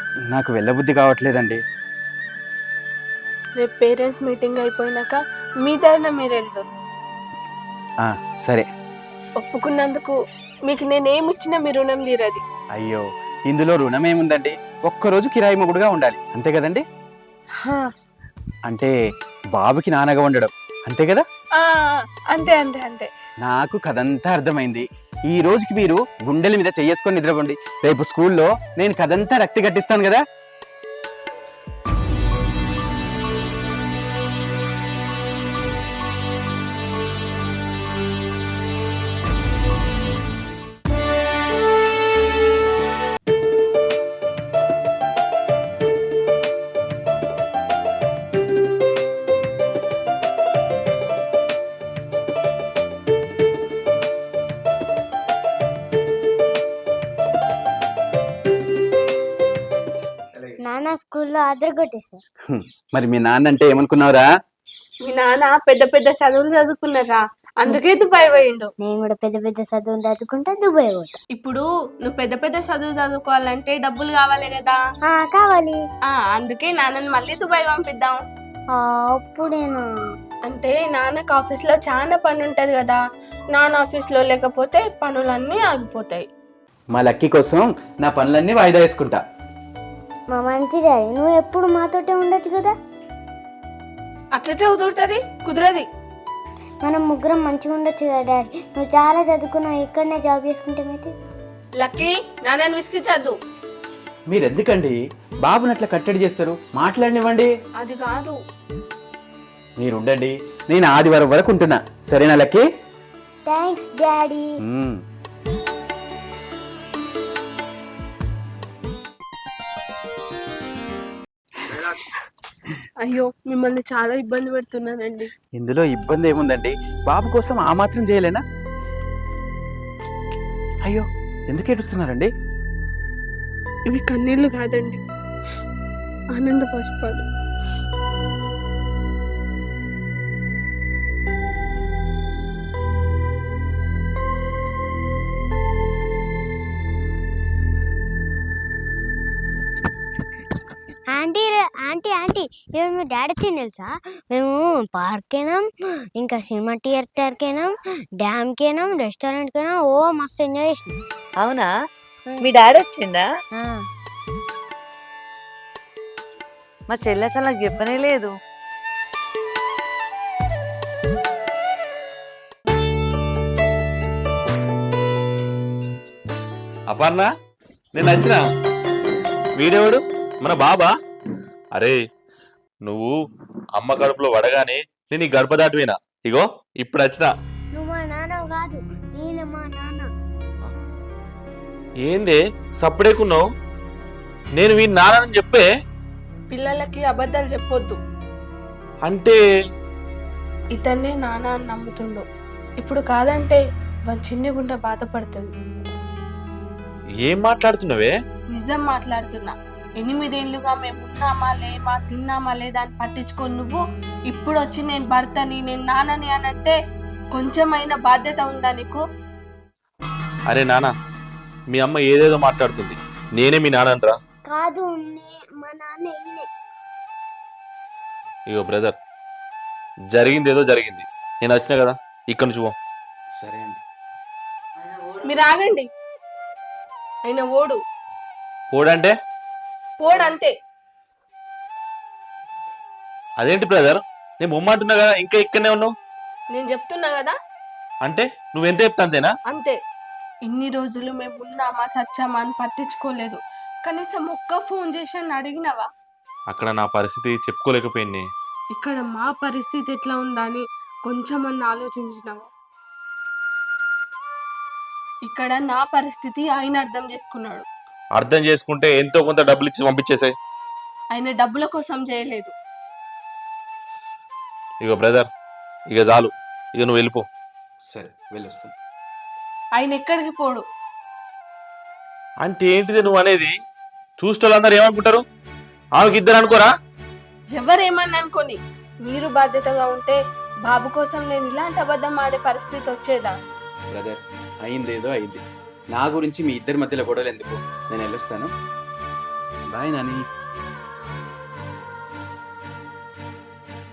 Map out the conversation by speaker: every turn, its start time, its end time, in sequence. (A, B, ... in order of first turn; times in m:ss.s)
0:00.3-0:01.6 A
0:03.6-0:06.7 B
0:08.0-0:08.7 A
0:09.4-0:12.4 B
0:12.8-0:16.8 A
0:17.6-0:17.9 B
0:18.7-0:18.9 A
0:19.6-0:21.2 A
0:21.6-0:23.1 B
0:23.4-0:30.2 A
1:00.6-1:02.2 C
1:02.5-1:04.3 A
1:05.0-1:08.7 B
1:08.8-1:11.2 C
1:11.3-1:14.8 B
1:15.1-1:15.8 C
1:16.1-1:18.2 B
1:18.7-1:19.9 C
1:20.5-1:23.0 B
1:23.5-1:26.2 B
1:26.9-1:29.2 A
1:30.3-1:32.8 C
1:34.4-1:35.9 B
1:36.8-1:41.1 C
1:41.8-1:43.4 B
1:44.3-1:47.5 A
1:47.8-1:48.4 B
1:49.8-1:52.6 A
1:53.5-1:54.6 C
1:54.7-1:55.0 A
2:03.0-2:05.3 B
2:05.6-2:08.4 A
2:10.9-2:12.3 A
2:13.9-2:15.0 B
2:16.3-2:17.2 B
2:31.1-2:35.7 C
2:36.2-2:41.0 C
2:41.4-2:41.7 D
2:42.4-2:43.2 D
2:43.5-2:43.8 C
2:46.9-2:48.3 D
2:56.9-2:57.3 E
2:58.0-2:58.4 E
2:59.6-3:00.9 E
3:02.8-3:03.1 E
3:03.8-3:07.3 E
3:07.7-3:10.1 C
3:12.1-3:13.4 E
3:14.6-3:15.7 E
3:16.5-3:18.0 B
3:19.0-3:19.4 E
3:20.8-3:22.2 B
3:22.8-3:25.5 B
3:27.2-3:28.1 E
3:28.5-3:36.8 B
3:37.3-3:39.0 B
3:40.5-3:40.9 E
3:41.7-3:44.2 E
3:44.5-3:46.5 C
3:48.5-3:49.0 E
3:50.1-3:52.7 E
3:53.4-3:53.8 A
3:54.8-3:55.4 D
3:55.2-3:55.9 B
3:57.2-3:57.8 B
3:58.7-3:59.1 E
4:00.0-4:00.5 B
4:03.4-4:05.9 E
4:06.5-4:07.4 B
4:08.0-4:09.3 E
4:09.5-4:09.8 B
4:10.5-4:15.9 B
4:16.5-4:18.3 E
4:18.8-4:22.5 B
4:25.2-4:27.7 B
4:28.2-4:30.3 E
4:31.1-4:32.5 B
4:34.8-4:35.3 E
4:35.9-4:37.2 E
4:37.9-4:38.7 A
4:39.8-4:40.6 B
4:42.4-4:43.5 E
4:44.2-4:45.2 E
4:46.0-4:46.7 E
4:47.6-4:53.4 B
4:53.9-4:55.4 A
4:55.9-4:58.5 A
4:59.7-5:00.2 A